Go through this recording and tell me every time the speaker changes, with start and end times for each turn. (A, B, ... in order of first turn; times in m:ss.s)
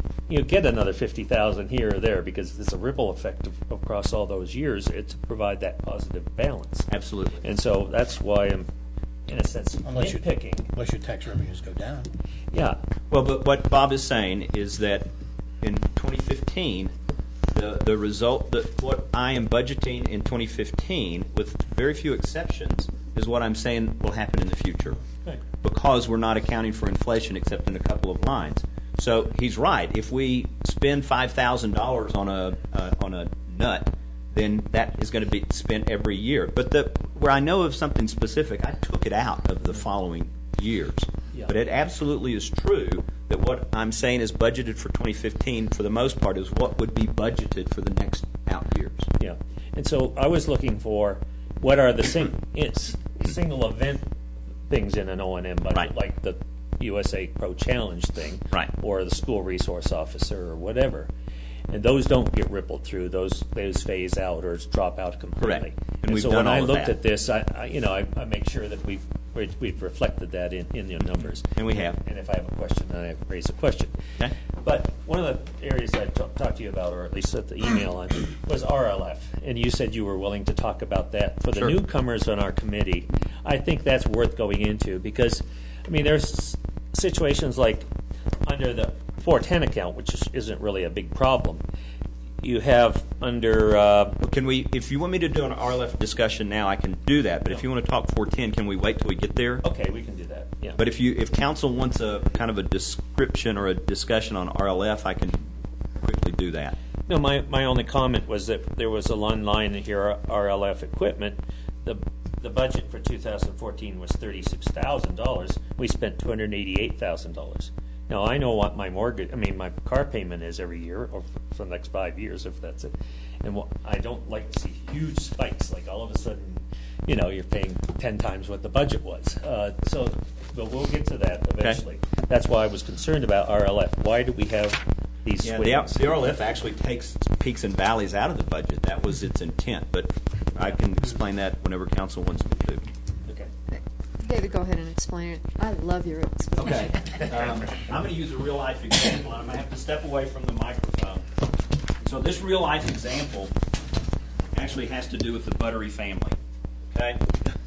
0:00.3-0:06.9 A
0:06.9-0:07.4 B
0:07.4-0:08.7 A
0:09.3-0:10.7 A
0:09.8-0:12.1 C
0:12.5-0:12.8 A
0:13.1-0:15.1 B
0:15.6-0:16.9 B
0:17.5-0:25.0 B
0:25.6-0:49.1 B
0:49.2-0:54.1 A
0:54.7-1:01.1 A
1:01.7-1:14.0 A
1:05.4-1:07.0 B
1:11.6-1:12.0 B
1:14.6-1:27.9 A
1:28.4-1:31.6 A
1:32.4-1:34.2 A
1:34.2-1:39.6 B
1:39.6-1:40.8 A
1:40.8-1:45.4 B
1:46.0-1:46.8 B
1:47.1-2:16.1 A
2:15.4-2:22.9 B
2:24.2-2:27.3 D
2:26.6-2:31.2 B
2:32.0-2:33.5 B
2:34.5-2:36.4 B
2:36.9-2:37.2 B